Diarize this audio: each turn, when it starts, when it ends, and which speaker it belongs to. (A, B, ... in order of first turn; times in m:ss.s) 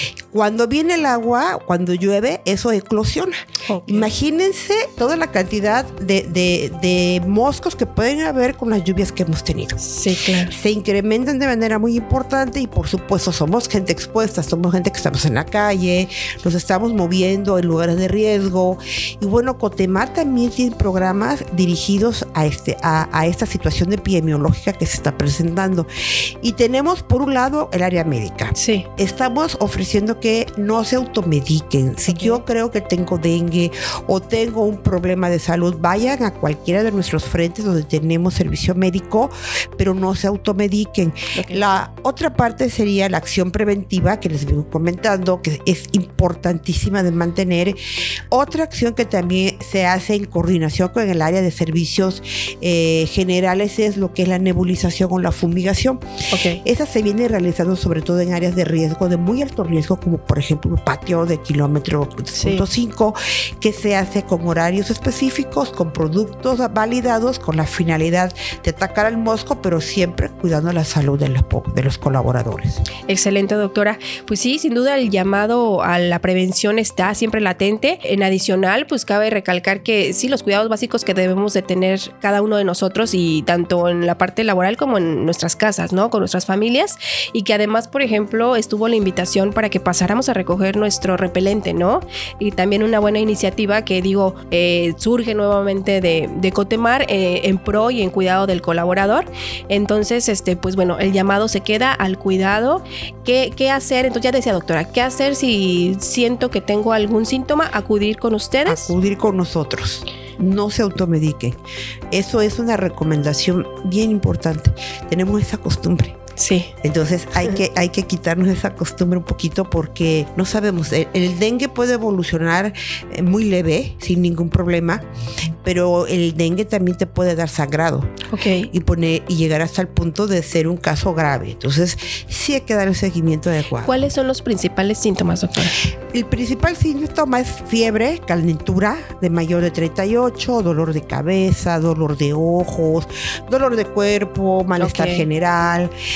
0:00.3-0:09.8 A
0:03.7-0:04.1 B
0:09.8-0:10.5 B
0:10.5-0:25.9 A
0:26.4-0:47.8 A
0:28.6-0:28.9 B
0:32.1-0:32.4 B
0:41.4-0:41.6 B
0:48.3-0:56.0 A
0:56.3-0:56.6 B
0:56.6-1:12.8 A
1:02.4-1:02.6 B
1:13.1-1:48.9 B
1:48.6-1:51.6 A
1:52.1-1:56.2 A
1:56.4-1:56.7 B
1:56.8-2:05.0 A
2:05.6-2:08.1 A
2:08.3-2:08.7 B
2:08.7-2:14.0 A
2:13.8-2:15.8 B
2:16.1-2:25.9 A
2:24.8-2:25.2 B